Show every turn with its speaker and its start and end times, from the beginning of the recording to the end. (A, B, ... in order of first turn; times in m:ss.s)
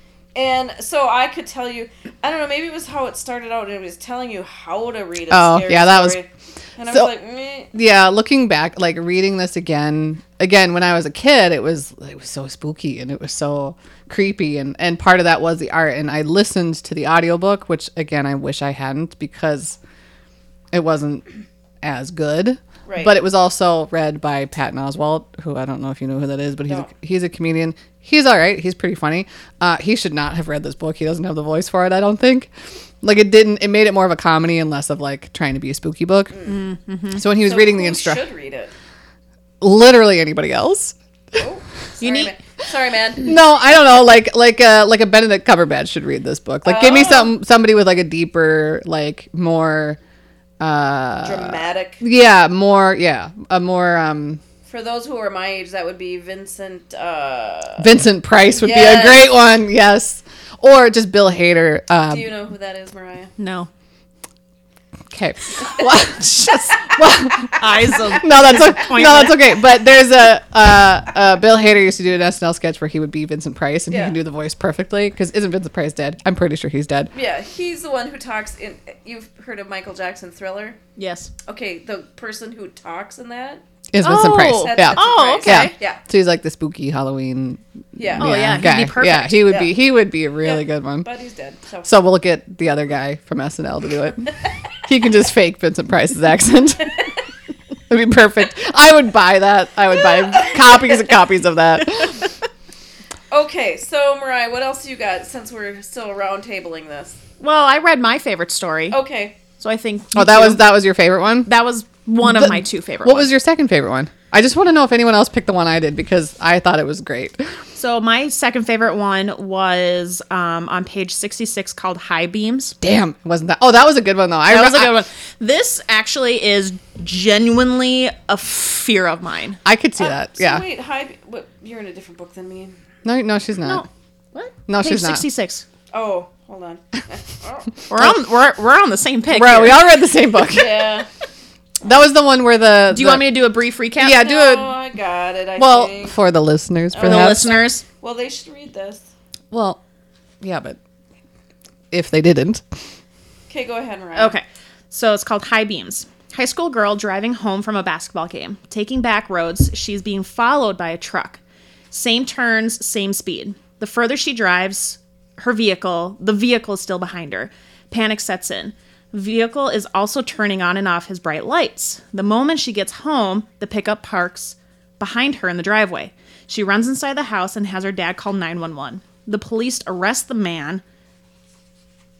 0:00.3-0:07.7 A
0:05.3-0:06.2 B
0:07.7-0:19.8 B
0:20.7-0:21.2 B
0:21.8-0:32.5 B
0:22.8-0:23.2 A
0:33.0-0:36.4 B
0:36.4-0:37.2 C
0:37.1-0:38.2 B
0:37.3-0:38.7 A
0:39.6-0:40.9 B
0:41.3-0:43.3 A
0:42.0-0:42.3 C
0:43.2-0:50.0 B
0:46.6-0:47.3 A
0:50.6-0:54.4 B
0:51.2-0:52.0 A
0:54.7-0:57.9 A
0:57.8-1:02.3 B
0:58.5-0:59.3 A
1:02.1-1:03.3 A
1:03.4-1:03.7 C
1:05.1-1:17.1 B
1:07.6-1:09.5 C
1:13.9-1:14.2 A
1:17.1-1:20.8 A
1:21.0-1:21.3 C
1:21.4-1:23.6 A
1:23.9-1:31.1 B
1:24.0-1:25.7 C
1:24.5-1:26.0 A
1:28.0-1:28.5 A
1:28.2-1:29.5 C
1:30.4-1:31.9 A
1:31.8-1:34.3 B
1:34.8-1:37.0 B
1:37.9-1:42.3 B
1:40.3-1:41.0 A
1:43.3-1:47.2 A
1:47.4-1:49.0 C
1:48.9-1:49.4 A
1:49.6-1:50.7 C
1:50.1-1:51.5 B
1:51.4-1:53.3 C
1:52.2-1:57.4 B
1:57.8-2:02.8 C
2:02.8-2:05.0 B
2:04.5-2:09.6 C
2:09.6-2:10.6 B
2:10.0-2:12.8 A
2:13.0-2:13.8 B
2:13.6-2:15.6 C
2:14.7-2:15.2 B
2:15.9-2:17.8 A
2:17.9-2:19.8 C
2:19.3-2:20.9 B
2:20.5-2:21.1 A
2:21.8-2:23.3 B
2:22.9-2:24.3 C
2:24.0-2:24.7 B
2:24.0-2:26.2 A
2:25.6-2:27.5 B
2:26.9-2:29.1 A
2:27.0-2:27.8 C
2:29.5-2:29.8 B
2:30.4-2:30.8 B
2:31.9-2:32.6 B
2:33.5-2:34.4 A
2:34.1-2:41.4 C
2:41.9-3:00.8 C